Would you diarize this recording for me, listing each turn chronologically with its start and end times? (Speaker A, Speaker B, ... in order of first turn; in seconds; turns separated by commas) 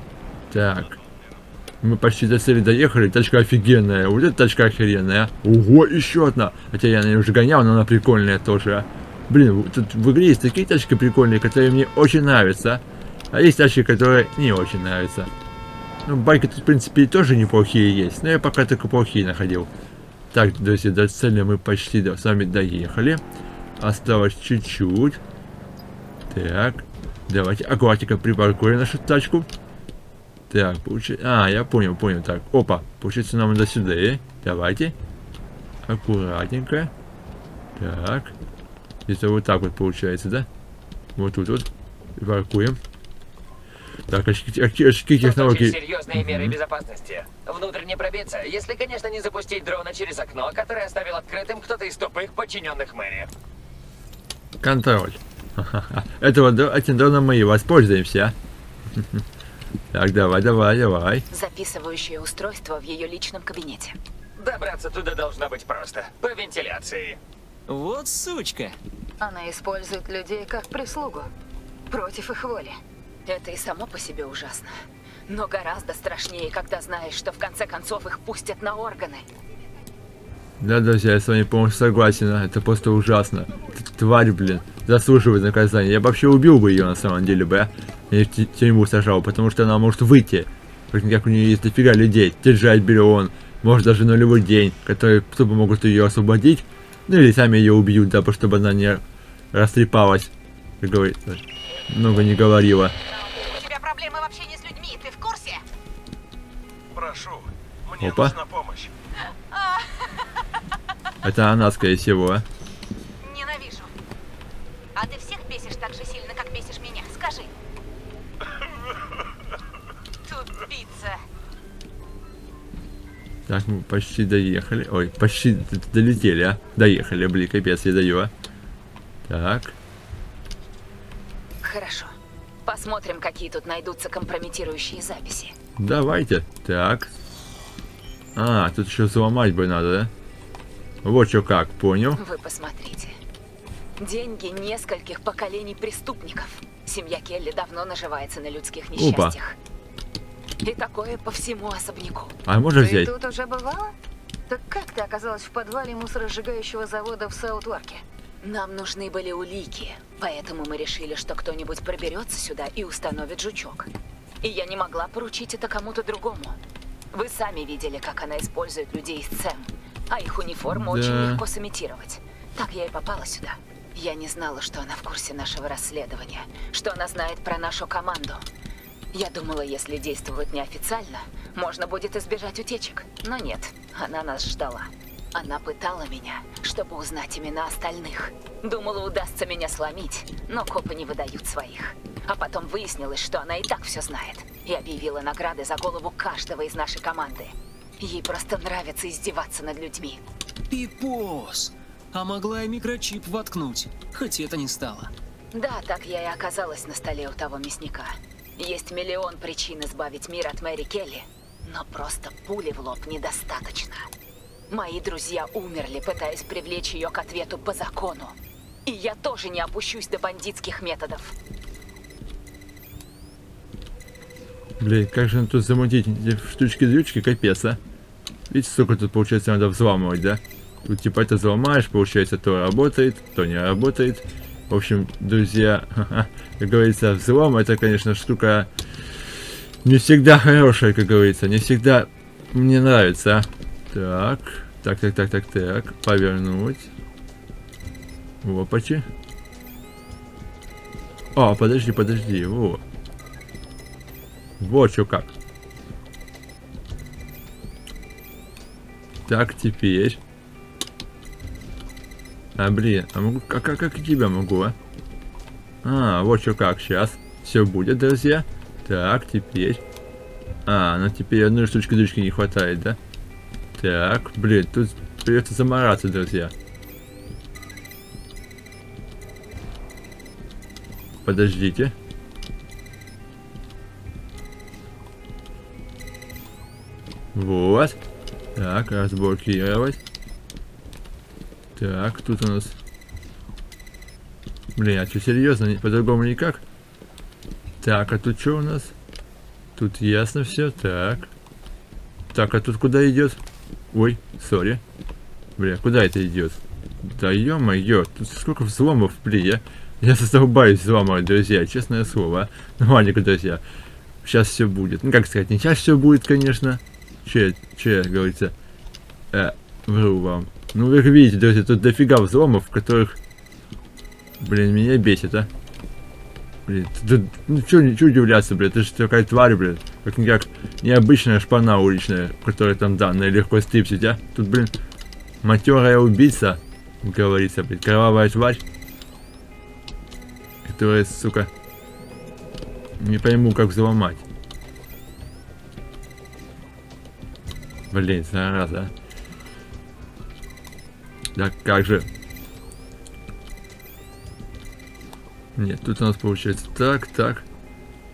Speaker A: 0.5-0.9, Speaker A: 1.8-15.3, Speaker A: 16.1-19.7, Speaker A: 20.3-23.2, Speaker A: 23.8-25.2, Speaker A: 26.3-29.5, Speaker A: 30.5-34.9, Speaker A: 35.9-36.9, Speaker A: 37.8-38.3, Speaker A: 39.1-40.5, Speaker A: 41.1-42.8, Speaker A: 44.1-46.5, Speaker B: 45.2-53.3, Speaker A: 54.6-58.3, Speaker A: 59.9-61.2, Speaker C: 61.3-64.0, Speaker B: 64.4-67.2, Speaker D: 67.7-68.8, Speaker E: 69.2-71.3, Speaker E: 71.9-72.8, Speaker C: 73.2-74.7, Speaker C: 75.3-79.2, Speaker A: 80.6-102.9, Speaker F: 103.1-105.6, Speaker G: 106.9-108.9, Speaker A: 108.0-108.3, Speaker A: 111.2-112.4, Speaker F: 113.2-113.9, Speaker F: 115.0-117.5, Speaker F: 120.3-121.2, Speaker A: 123.5-128.3, Speaker A: 129.3-129.7, Speaker C: 131.6-132.1, Speaker C: 132.6-135.5, Speaker A: 135.8-137.1, Speaker A: 138.3-140.1, Speaker A: 141.0-142.2, Speaker C: 142.1-143.1, Speaker C: 144.0-149.6, Speaker A: 148.9-149.3, Speaker C: 150.6-152.3, Speaker A: 152.4-153.1, Speaker E: 152.8-153.9, Speaker E: 154.5-158.0, Speaker C: 158.4-163.9, Speaker C: 164.4-166.6, Speaker C: 167.1-178.4, Speaker A: 170.7-171.4, Speaker C: 179.1-200.2, Speaker D: 200.7-205.1, Speaker C: 205.5-214.1, Speaker C: 214.7-218.3, Speaker C: 218.8-221.3, Speaker A: 224.8-227.8, Speaker A: 228.5-238.7, Speaker A: 239.8-246.9, Speaker A: 248.4-249.1, Speaker A: 251.3-252.8, Speaker A: 254.6-255.3, Speaker A: 259.3-260.2, Speaker A: 262.6-264.8, Speaker A: 265.8-269.8, Speaker A: 270.6-273.0, Speaker A: 273.8-276.5, Speaker A: 281.2-281.9, Speaker A: 287.3-288.0, Speaker A: 288.6-290.0, Speaker A: 291.8-292.7, Speaker A: 294.7-296.6, Speaker A: 297.8-298.9, Speaker A: 299.8-301.3, Speaker A: 302.3-303.4, Speaker A: 303.9-304.8, Speaker A: 305.6-313.6, Speaker A: 314.2-318.5, Speaker A: 319.3-323.2, Speaker A: 324.4-325.5, Speaker A: 326.7-334.7, Speaker A: 335.4-338.6, Speaker A: 340.6-341.5, Speaker A: 343.0-344.2, Speaker A: 347.9-348.9, Speaker A: 351.3-352.1, Speaker A: 355.6-357.4